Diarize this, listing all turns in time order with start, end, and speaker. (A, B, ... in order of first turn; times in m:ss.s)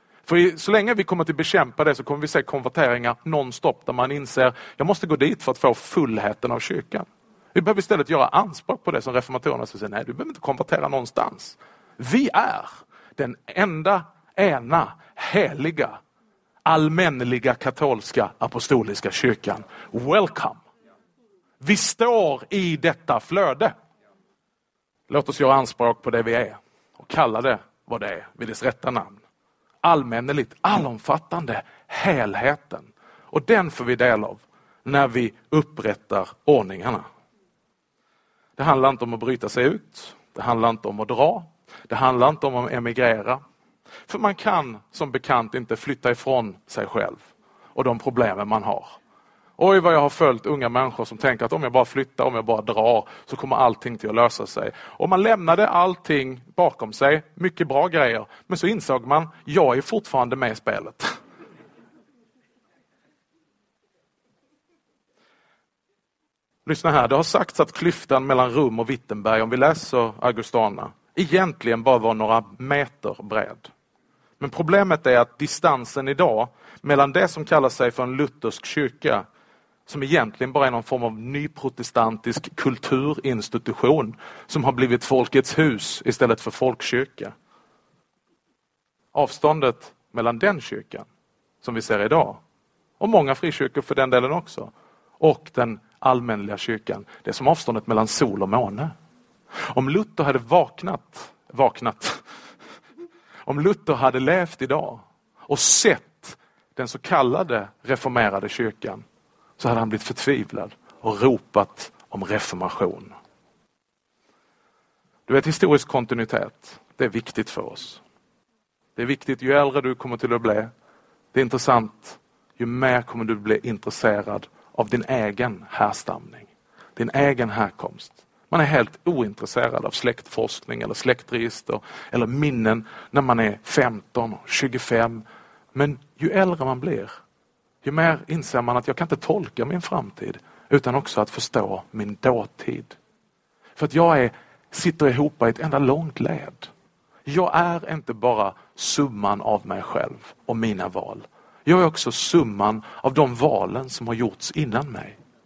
0:00.2-0:16.0 A
0:16.6-0:20.6 A
0:21.6-0:23.7 A
0:25.1-0:29.2 A
0:29.8-0:37.0 A
0:38.6-0:43.4 A
0:44.1-0:47.2 A
0:47.7-0:49.0 A
0:49.6-1:01.1 A
1:06.6-1:13.7 A
1:14.4-1:19.2 A
1:19.9-1:27.3 A
1:29.1-1:31.1 A
1:31.6-1:32.4 A
1:33.0-1:38.9 A
1:39.7-1:42.2 A
1:43.4-1:49.0 A
1:49.6-1:53.1 A
1:55.3-1:58.0 A
1:59.0-2:00.7 A
2:01.3-2:15.2 A
2:15.7-2:17.1 A
2:17.8-2:23.0 A
2:23.8-2:26.7 A
2:27.2-2:35.2 A